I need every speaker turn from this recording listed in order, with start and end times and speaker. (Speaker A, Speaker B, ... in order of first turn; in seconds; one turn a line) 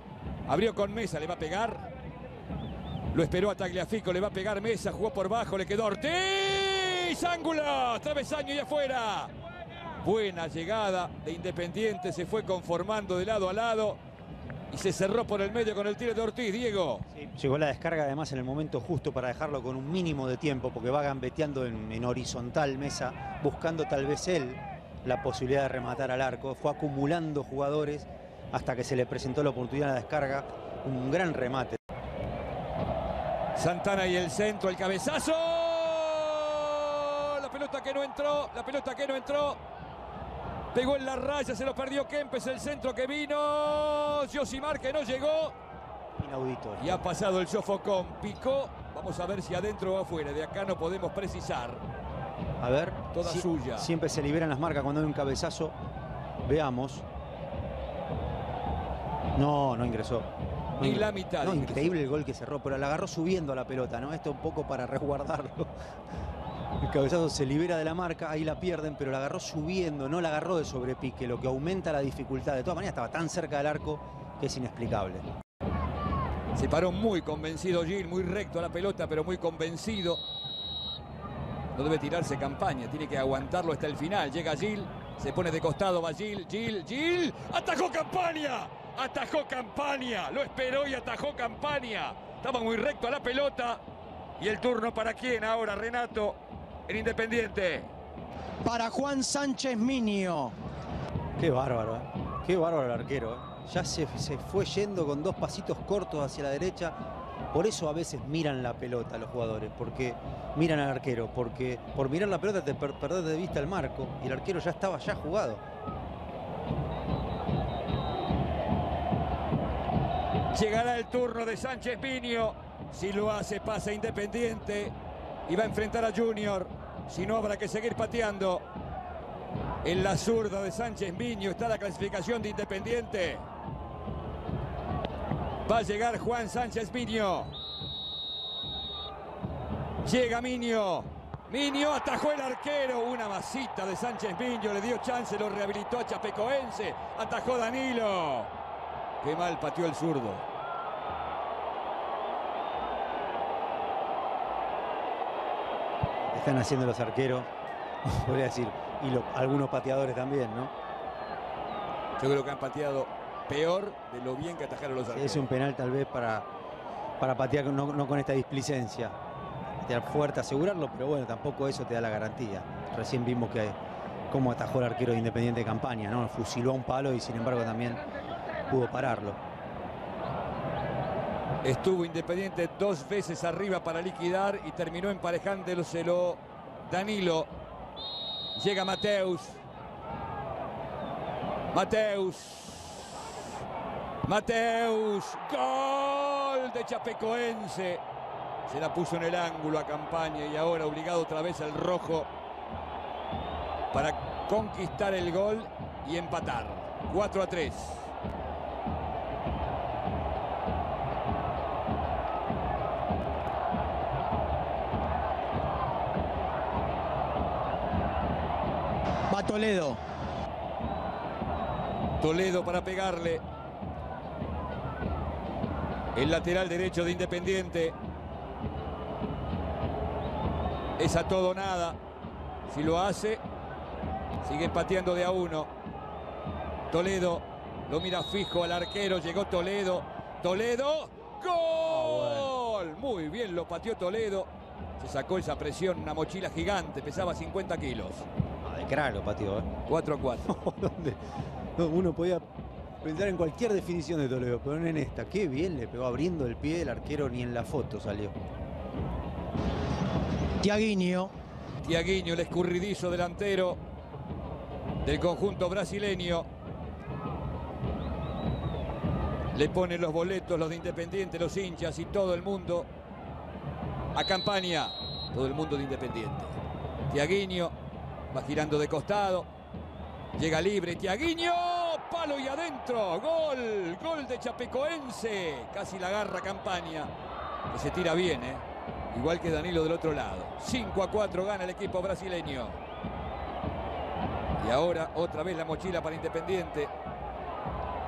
Speaker A: 0.5-1.9
Speaker A: 3.1-9.3
Speaker A: 10.0-14.0
Speaker A: 14.7-17.1
Speaker B: 17.1-31.8
Speaker A: 33.5-39.6
Speaker A: 40.7-45.5
Speaker B: 46.2-47.0
Speaker A: 46.8-51.8
Speaker B: 52.6-55.7
Speaker A: 53.1-53.9
Speaker B: 56.4-57.0
Speaker B: 59.3-65.7
Speaker A: 60.8-62.0
Speaker B: 66.8-75.2
Speaker A: 76.5-80.2
Speaker A: 81.7-93.8
Speaker A: 94.4-97.9
Speaker C: 98.6-100.5
Speaker B: 101.4-106.9
Speaker B: 107.5-115.6
Speaker A: 120.5-124.9
Speaker A: 125.5-128.6
Speaker A: 129.8-133.4
Speaker A: 135.7-137.5
Speaker A: 140.0-148.5
Speaker A: 149.2-150.5
Speaker B: 156.2-157.5
Speaker B: 158.0-160.7
Speaker A: 162.2-165.5
Speaker B: 165.1-166.4
Speaker B: 167.2-169.2
Speaker B: 169.8-173.8
Speaker B: 174.3-178.0
Speaker B: 178.7-179.4
Speaker A: 181.6-187.5
Speaker A: 188.5-189.6
Speaker A: 191.7-193.2
Speaker A: 194.2-198.0
Speaker A: 198.7-202.3
Speaker A: 203.9-208.1
Speaker C: 219.3-220.0
Speaker A: 222.2-223.4
Speaker A: 226.1-227.9
Speaker A: 231.0-232.0
Speaker A: 232.7-233.4
Speaker A: 234.4-235.7
Speaker A: 236.9-248.3
Speaker B: 241.9-242.5
Speaker B: 248.6-249.7
Speaker A: 249.8-250.6
Speaker B: 250.4-251.2
Speaker B: 251.8-252.4
Speaker B: 253.0-258.3
Speaker C: 260.6-261.3
Speaker A: 261.8-263.8
Speaker A: 265.0-266.5
Speaker A: 269.5-272.9
Speaker A: 274.1-276.6
Speaker A: 277.1-277.7
Speaker A: 278.3-279.5
Speaker A: 280.4-287.1
Speaker A: 287.7-292.8
Speaker A: 294.6-296.9